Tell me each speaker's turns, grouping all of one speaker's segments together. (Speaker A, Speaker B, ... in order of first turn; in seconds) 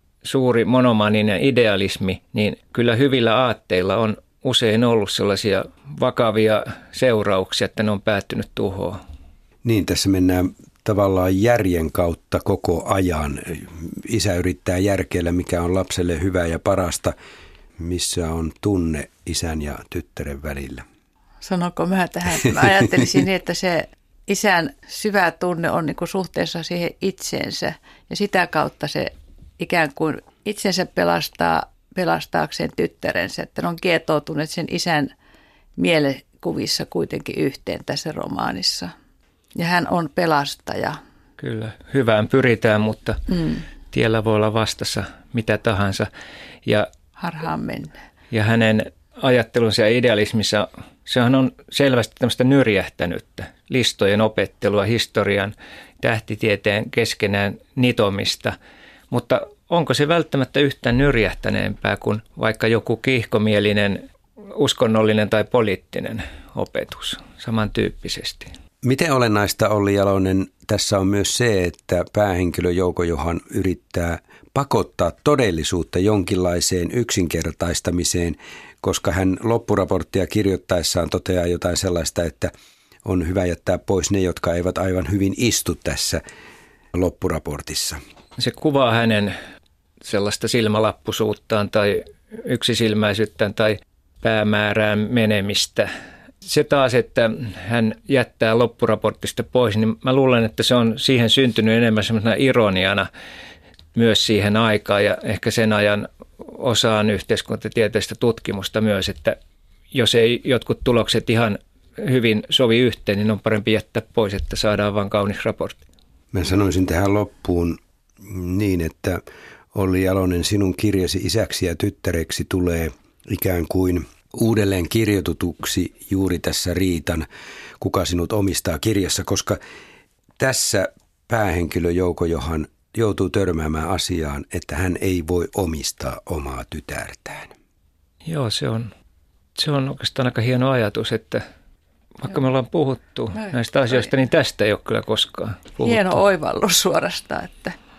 Speaker A: 0.2-9.0, 41.4-43.2, 43.9-46.1, 48.3-58.5, 59.1-64.0, 64.6-68.5, 88.4-89.3, 90.0-95.9, 96.5-103.1, 104.0-109.4, 109.9-115.8, 138.2-138.9, 139.6-141.4, 142.2-146.2
Speaker B: 9.6-17.1, 17.8-20.9, 68.8-82.5, 83.0-86.2, 86.9-88.0, 116.3-119.2, 119.7-127.3, 127.8-129.6, 130.4-137.5
Speaker C: 21.4-35.1, 35.8-38.9, 39.5-41.0, 43.3-43.6, 47.2-48.0, 145.8-147.8